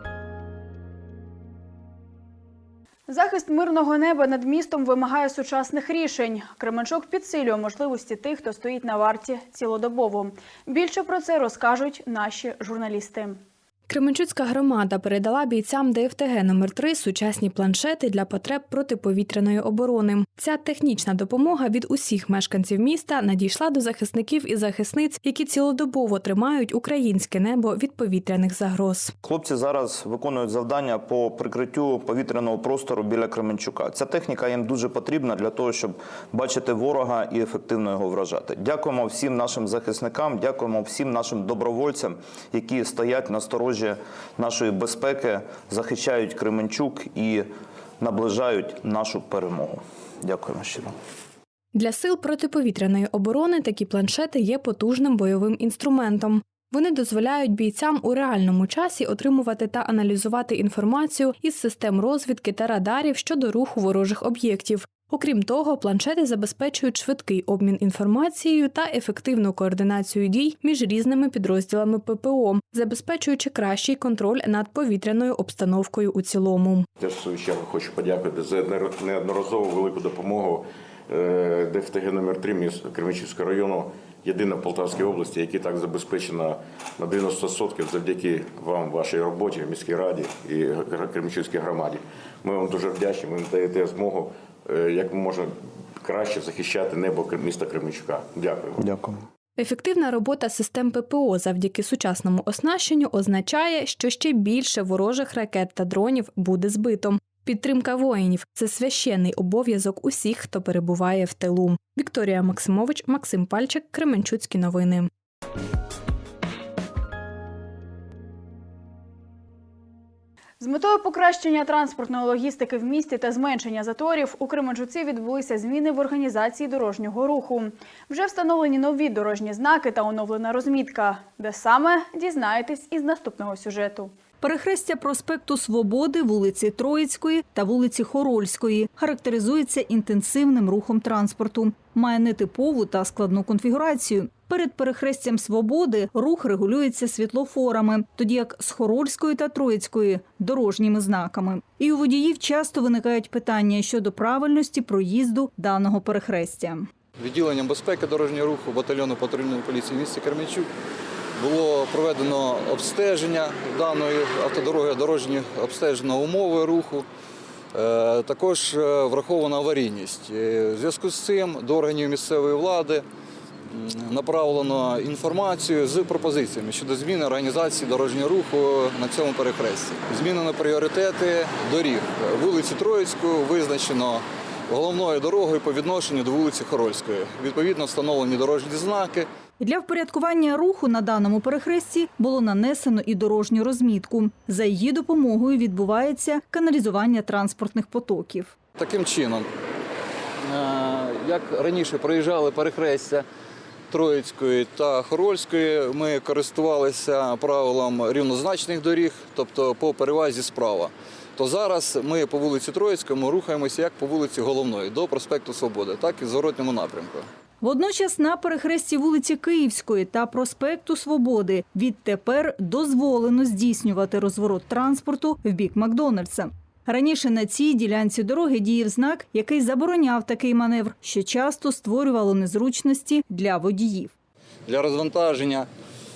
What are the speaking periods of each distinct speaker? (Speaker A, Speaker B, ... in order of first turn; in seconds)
Speaker A: 3.1-13.4, 120.6-134.1
Speaker B: 13.9-29.1, 51.7-76.9, 99.6-115.1
Speaker C: 29.2-47.5, 48.0-50.9, 98.8-99.2
Speaker D: 77.0-98.8
Speaker E: 134.4-156.9, 189.6-198.5, 217.6-234.1
Speaker F: 157.2-160.7, 161.4-167.1, 167.7-173.1, 173.7-189.3, 198.8-199.5, 200.4-203.2, 203.9-217.3, 234.7-235.7